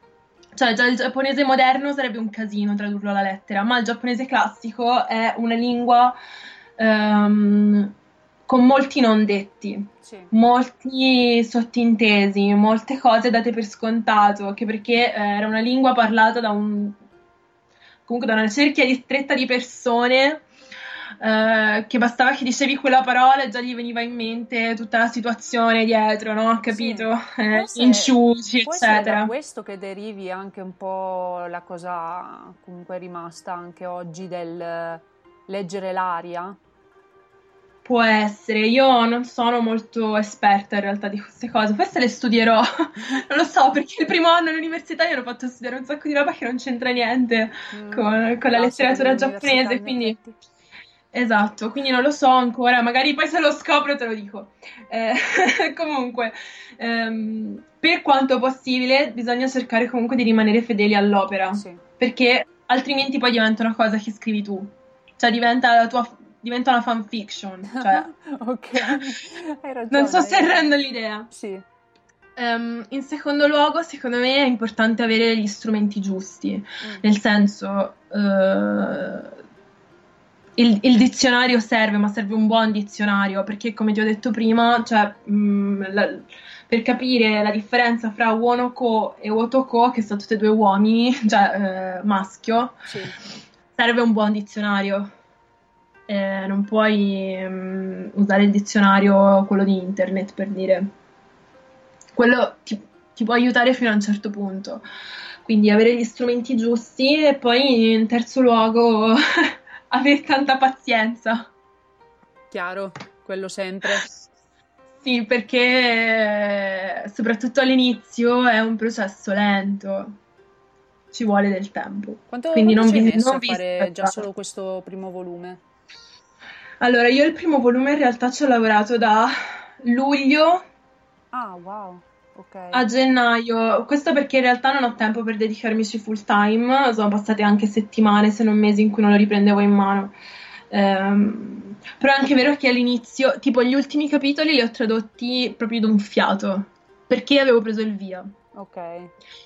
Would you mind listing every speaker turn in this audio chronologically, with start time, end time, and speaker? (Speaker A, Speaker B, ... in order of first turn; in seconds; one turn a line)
Speaker A: 0.6-6.2
Speaker A: 6.8-7.9
Speaker A: 8.5-17.0
Speaker B: 10.0-10.3
Speaker A: 18.1-20.4
Speaker A: 21.2-29.3
Speaker B: 26.7-36.6
Speaker A: 37.9-50.2
Speaker B: 47.7-50.4
Speaker A: 51.1-68.1
Speaker B: 61.5-61.8
Speaker B: 67.7-70.7
Speaker A: 69.9-71.3
Speaker B: 71.3-71.6
Speaker A: 72.4-79.3
Speaker A: 80.6-92.8
Speaker B: 92.9-93.2
Speaker A: 93.8-95.1
Speaker A: 96.1-100.9
Speaker A: 102.2-104.8
Speaker A: 105.4-111.5
Speaker B: 112.5-114.1
Speaker A: 115.0-120.2
Speaker A: 121.1-124.2
Speaker B: 122.3-125.6
Speaker A: 126.8-130.6
Speaker B: 131.3-132.9
Speaker A: 132.7-140.1
Speaker A: 140.7-148.3
Speaker B: 148.6-149.1